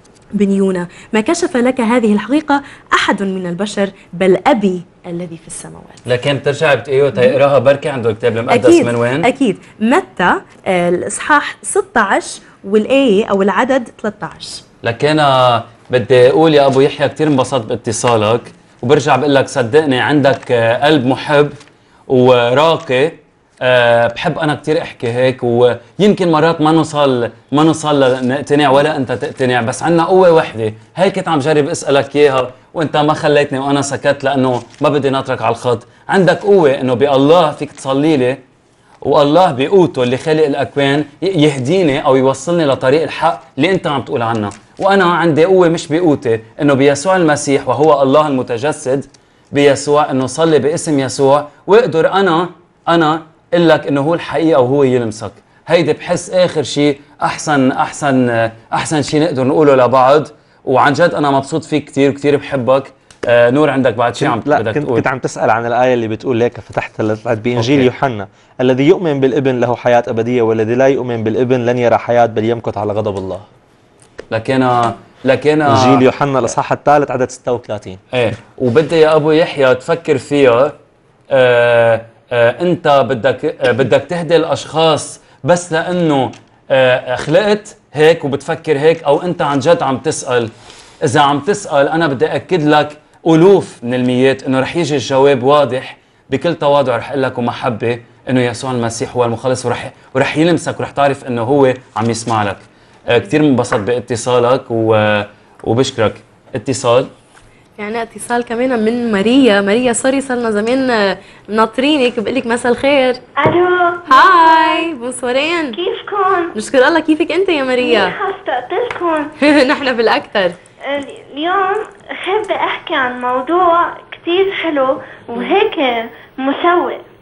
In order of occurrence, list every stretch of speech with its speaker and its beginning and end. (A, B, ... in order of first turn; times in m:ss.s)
0:00.4-0:06.0 A
0:06.0-0:09.3 B
0:08.5-0:14.6 A
0:14.8-0:21.6 B
0:22.1-0:38.4 B
0:39.0-1:05.0 B
1:04.2-1:13.5 C
1:07.6-1:07.9 B
1:14.3-1:16.0 B
1:15.7-1:18.0 C
1:18.1-1:20.7 B
1:21.3-1:30.5 B
1:31.0-1:47.1 B
1:47.8-1:53.2 A
1:53.4-1:54.9 D
1:54.1-1:55.8 A
1:55.7-1:56.5 D
1:56.5-1:58.2 A
1:57.8-1:59.3 D
1:59.5-2:00.6 A
2:00.9-2:07.0 D